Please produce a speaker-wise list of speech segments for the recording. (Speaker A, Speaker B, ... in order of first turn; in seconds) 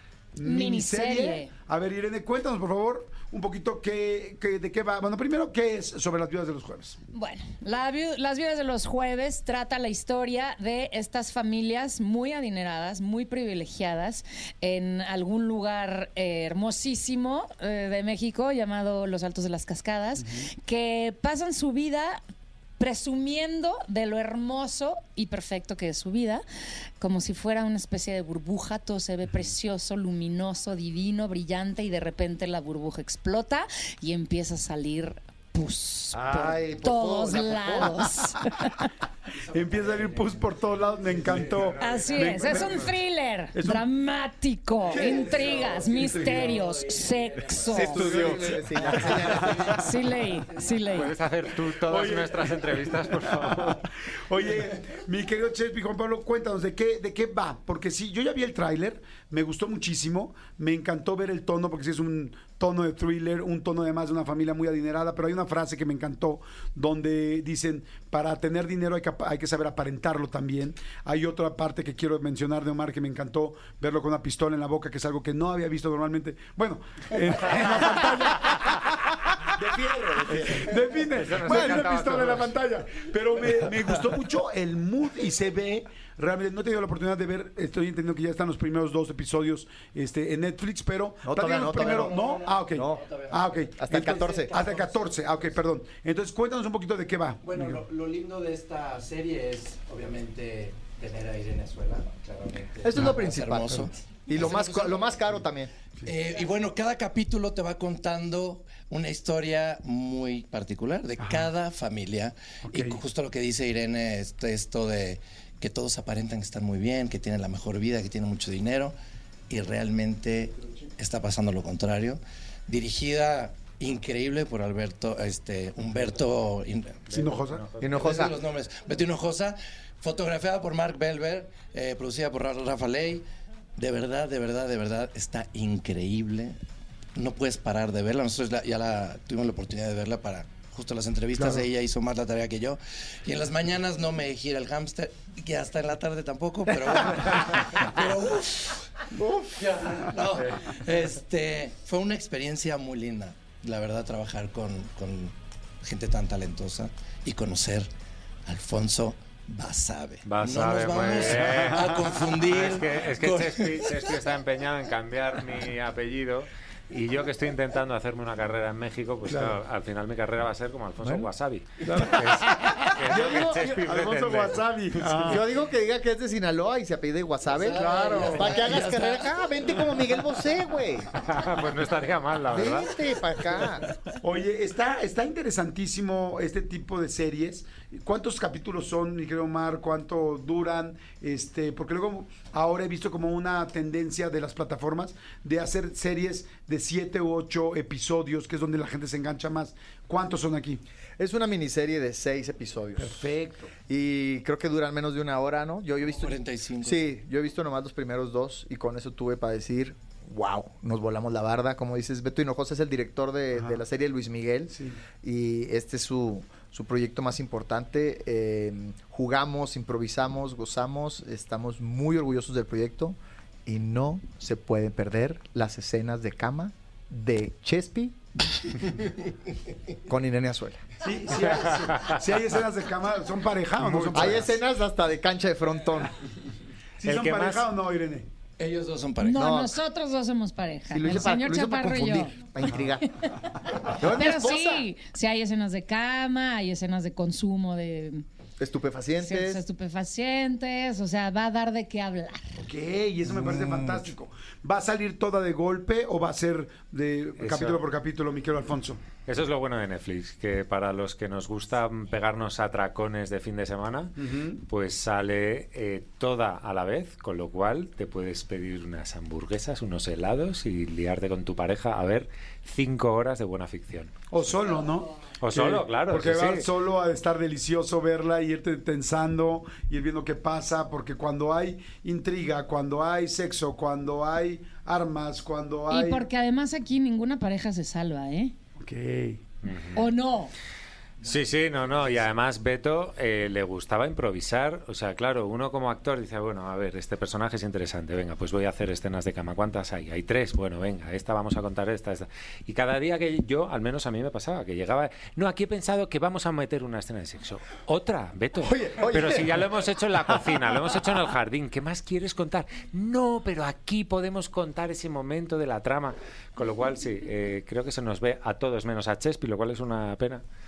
Speaker A: 0.3-7.0, 39.5-42.7, 43.5-43.8, 44.9-45.6, 47.7-49.7, 51.8-97.8, 111.2-111.5, 112.6-113.0, 127.1-127.7, 161.2-162.3, 169.2-169.5, 171.8-175.4, 184.2-200.8, 203.0-203.7, 214.7-215.0, 231.0-234.5, 237.0-238.3, 252.6-259.0, 264.2-264.6, 274.3-286.2, 288.8-289.4
Speaker B: 0.4-1.5, 7.1-22.2, 22.8-26.4, 27.0-38.9, 41.8-48.1, 49.6-51.1, 239.2-242.4, 243.2-248.2, 249.2-252.4, 285.9-288.5, 289.9-290.5
Speaker C: 36.1-38.0, 47.7-49.7, 79.6-80.6, 91.2-92.1, 92.7-93.0, 93.8-94.5, 102.8-105.7, 127.8-128.3, 149.1-149.7, 171.0-171.3, 175.1-181.2, 182.5-183.8, 201.2-203.2, 203.8-229.0, 230.1-230.9, 234.1-236.1, 239.3-239.8, 240.9-243.1, 243.8-244.8, 248.6-249.6, 253.2-254.1, 308.6-309.7
Speaker D: 39.3-42.4, 44.9-47.9, 49.0-49.8, 91.7-93.5, 94.1-95.5, 97.4-105.3, 106.0-118.9, 119.5-127.1, 127.8-133.2, 133.8-136.5, 137.2-149.0, 149.6-157.9, 158.4-163.9, 177.5-179.4, 206.0-207.0, 238.6-239.4
Speaker E: 41.6-42.9, 50.9-53.8, 81.1-82.5, 127.1-128.1, 160.2-161.9, 162.4-174.6, 177.8-178.6, 181.2-182.9, 233.8-234.3, 237.0-237.7, 257.4-257.8, 259.2-264.1, 264.7-274.1, 275.4-276.6, 289.6-290.0, 291.2-320.4